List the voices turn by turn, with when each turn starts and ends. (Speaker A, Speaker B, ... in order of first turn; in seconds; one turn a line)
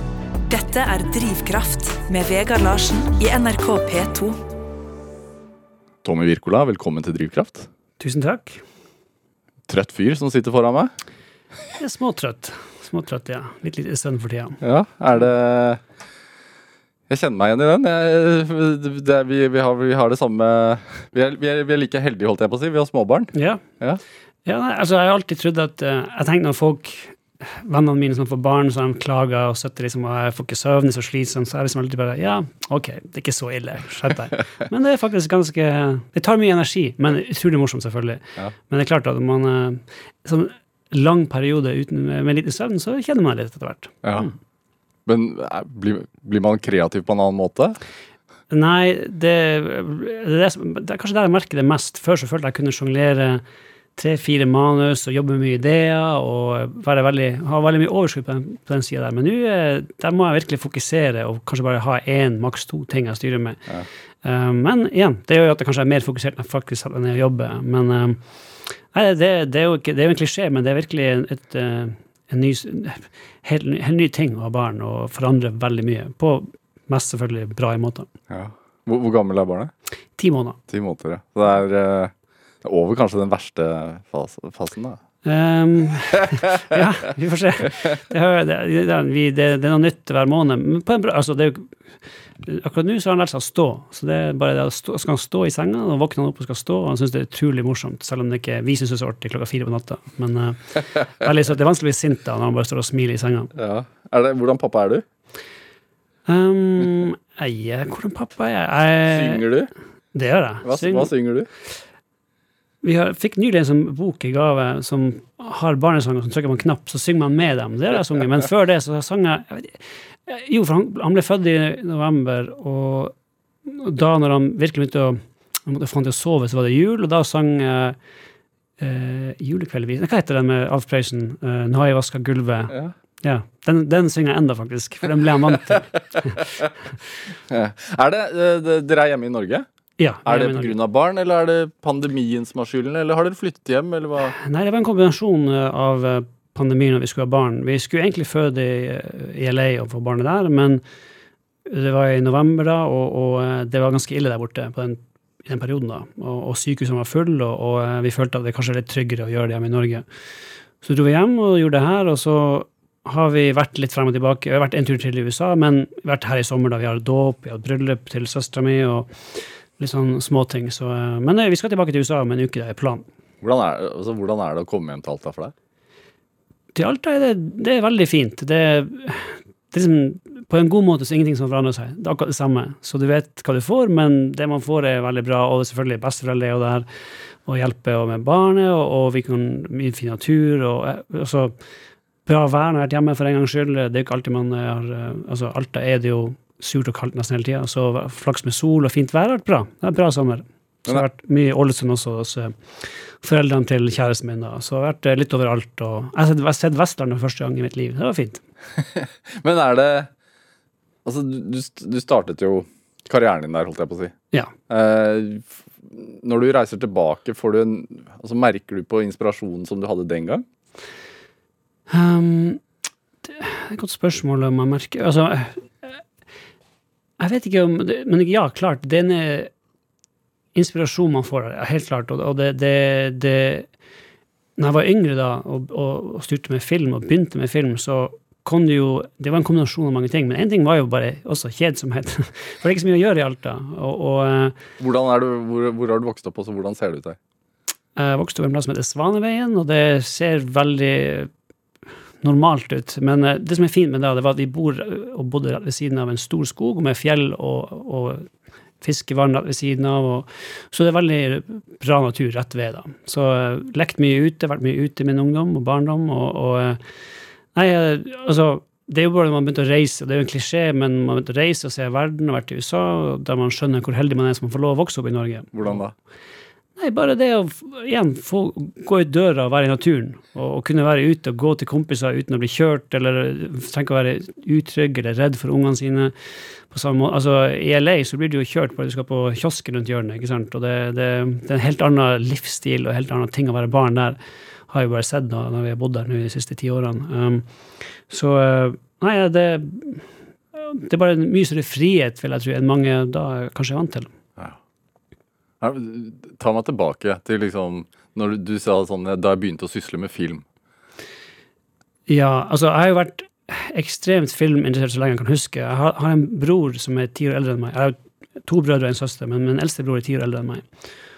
Speaker A: 0.5-4.4
Speaker B: 6.0-7.7
Speaker C: 8.0-8.6
Speaker B: 9.7-10.9
Speaker C: 11.8-14.6
Speaker B: 14.6-15.8
Speaker B: 17.1-24.0
Speaker C: 23.3-23.6
Speaker C: 24.4-44.3
Speaker B: 45.0-47.8
Speaker C: 48.5-53.4
Speaker C: 54.0-63.7
Speaker C: 64.2-68.2
Speaker C: 68.9-78.1
Speaker B: 78.3-79.7
Speaker C: 80.2-80.6
Speaker B: 80.7-85.0
Speaker C: 85.2-91.7
Speaker C: 92.4-103.5
Speaker B: 103.5-105.0
Speaker C: 106.3-109.5
Speaker B: 109.1-109.7
Speaker C: 110.1-111.1
Speaker B: 110.6-111.5
Speaker C: 112.8-123.1
Speaker C: 123.7-128.0
Speaker C: 128.8-136.4
Speaker B: 137.5-139.7
Speaker C: 140.0-140.7
Speaker B: 140.2-144.3
Speaker C: 144.3-150.8
Speaker C: 151.7-160.0
Speaker C: 160.8-173.1
Speaker B: 173.4-175.5
Speaker C: 176.7-186.8
Speaker C: 187.4-191.5
Speaker C: 192.2-208.4
Speaker B: 208.8-210.1
Speaker B: 211.0-214.1
Speaker B: 214.7-220.4
Speaker C: 221.9-222.6
Speaker C: 223.2-226.0
Speaker C: 227.2-229.5
Speaker C: 230.5-233.7
Speaker C: 234.6-244.6
Speaker B: 244.8-247.2
Speaker C: 247.9-251.3
Speaker C: 252.2-258.3
Speaker C: 258.8-266.8
Speaker C: 267.5-275.8
Speaker B: 275.5-275.9
Speaker C: 276.8-286.1
Speaker C: 286.7-294.2
Speaker C: 294.7-297.4
Speaker C: 298.1-304.1
Speaker B: 305.6-310.4
Speaker C: 312.1-320.6